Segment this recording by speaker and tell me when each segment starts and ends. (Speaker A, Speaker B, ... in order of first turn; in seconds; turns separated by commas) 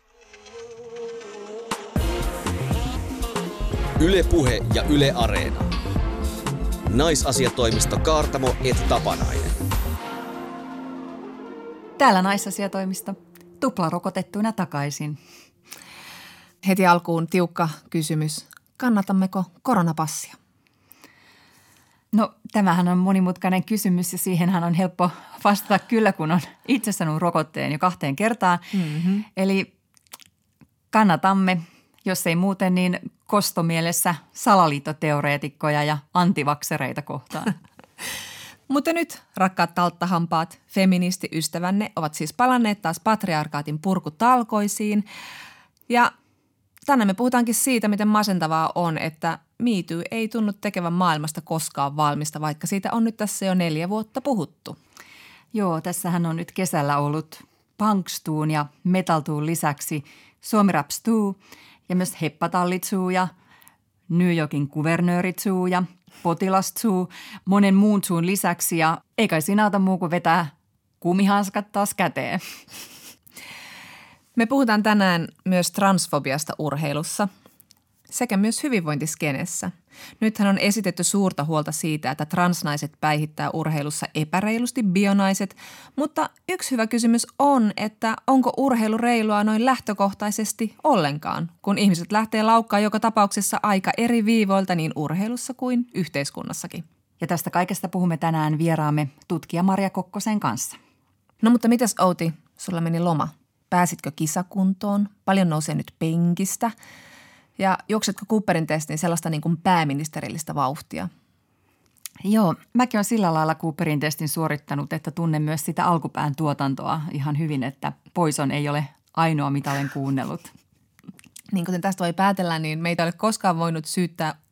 Speaker A: 4.0-5.7, Speaker A: 6.9-9.6, Speaker B: 12.0-15.2, Speaker C: 16.6-20.4, Speaker B: 22.1-28.7, Speaker C: 28.7-29.2, Speaker B: 29.4-29.7, Speaker B: 30.9-37.5, Speaker C: 38.7-45.1, Speaker C: 46.9-54.8, Speaker B: 55.5-63.3, Speaker B: 64.1-72.5, Speaker C: 74.3-77.3, Speaker C: 78.1-96.8, Speaker B: 97.2-100.8, Speaker C: 101.4-106.7, Speaker C: 107.6-111.1, Speaker B: 112.2-120.5, Speaker C: 121.5-124.4